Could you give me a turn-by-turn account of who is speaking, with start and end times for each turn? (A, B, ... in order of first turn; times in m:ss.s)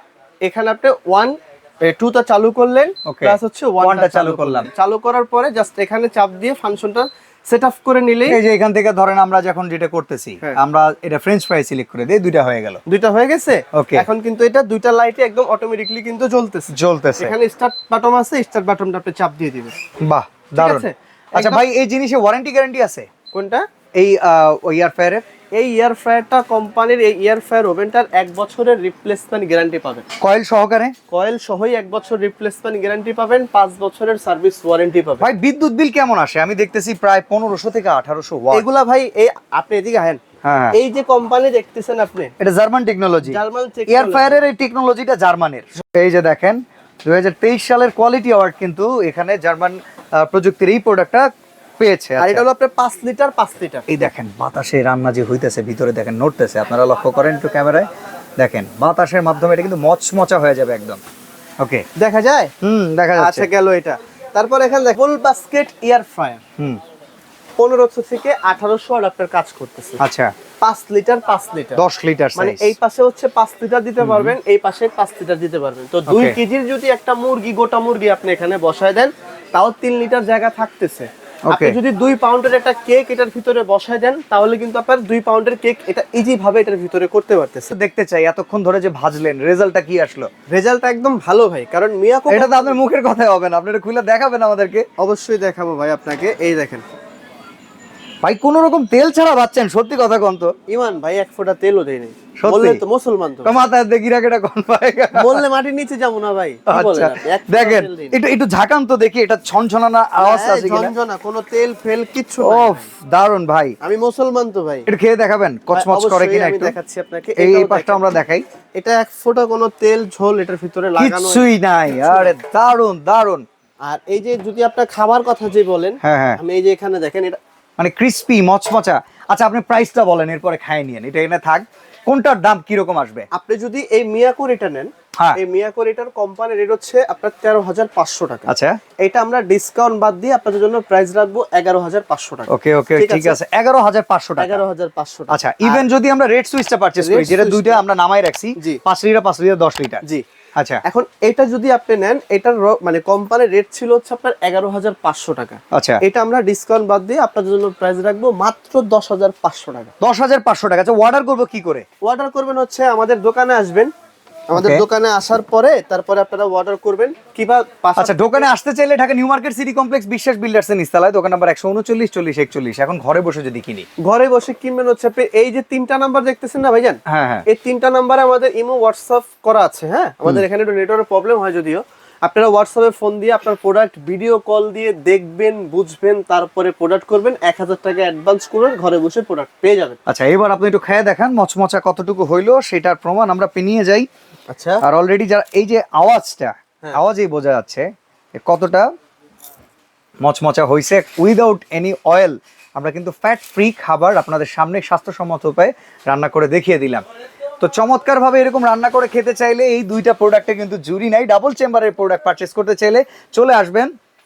0:00.4-0:08.4 A
0:03.1-0:04.7 B
0:08.3-0:12.8 B
0:12.9-0:19.8 A
0:13.7-0:14.1 B
0:16.7-0:17.4 B
0:20.0-0:23.1 B
0:20.6-0:21.6 A
0:23.3-0:23.6 A
0:24.0-0:25.2 B
0:25.6-0:30.0 A
0:30.2-0:30.9 B
0:31.1-0:35.3 A
0:35.2-0:38.7 B
0:38.5-0:40.2 A
0:40.4-0:40.8 B
0:40.7-0:42.3 A
0:42.4-0:51.3 B
0:43.2-0:44.4 A
0:51.8-0:52.4 B
0:52.2-0:53.9 A
0:53.9-1:01.0 B
1:01.6-1:01.9 B
1:02.0-1:02.5 A
1:02.6-1:03.5 B
1:03.2-1:06.4 A
1:07.6-1:10.0 A
1:10.0-1:10.3 B
1:10.6-1:11.8 A
1:11.8-1:12.8 B
1:12.4-1:27.7 A
1:14.0-1:14.4 B
1:16.1-1:16.4 B
1:21.5-1:21.8 B
1:27.7-1:30.3 B
1:30.5-1:32.8 A
1:32.3-1:34.9 B
1:35.0-1:36.8 A
1:38.2-1:40.5 B
1:40.7-1:43.5 A
1:42.4-1:42.8 B
1:43.4-1:45.4 B
1:45.2-1:48.2 A
1:46.7-1:50.9 B
1:50.2-1:52.9 A
1:52.4-1:53.8 B
1:53.8-1:54.9 A
1:54.9-1:56.7 B
1:55.7-1:58.1 A
1:57.4-1:58.4 B
1:58.8-2:01.4 A
2:01.0-2:03.4 B
2:02.0-2:02.3 A
2:03.8-2:07.4 A
2:06.0-2:06.4 B
2:07.8-2:13.3 B
2:13.3-2:18.5 A
2:18.5-2:18.8 B
2:19.0-2:23.4 A
2:22.5-2:24.6 B
2:24.4-2:25.8 A
2:25.3-2:30.0 B
2:27.0-2:27.8 A
2:30.8-2:39.9 A
2:35.7-2:36.0 B
2:40.0-2:41.8 B
2:42.0-2:43.9 A
2:44.5-2:48.5 A
2:44.5-2:44.8 B
2:48.0-2:53.9 B
2:54.0-3:10.0 A
2:57.1-2:57.4 B
3:10.1-3:14.1 B
3:14.5-3:14.8 A
3:14.8-3:17.9 B
3:18.4-3:18.9 B
3:20.2-3:27.0 B
3:27.6-3:33.9 B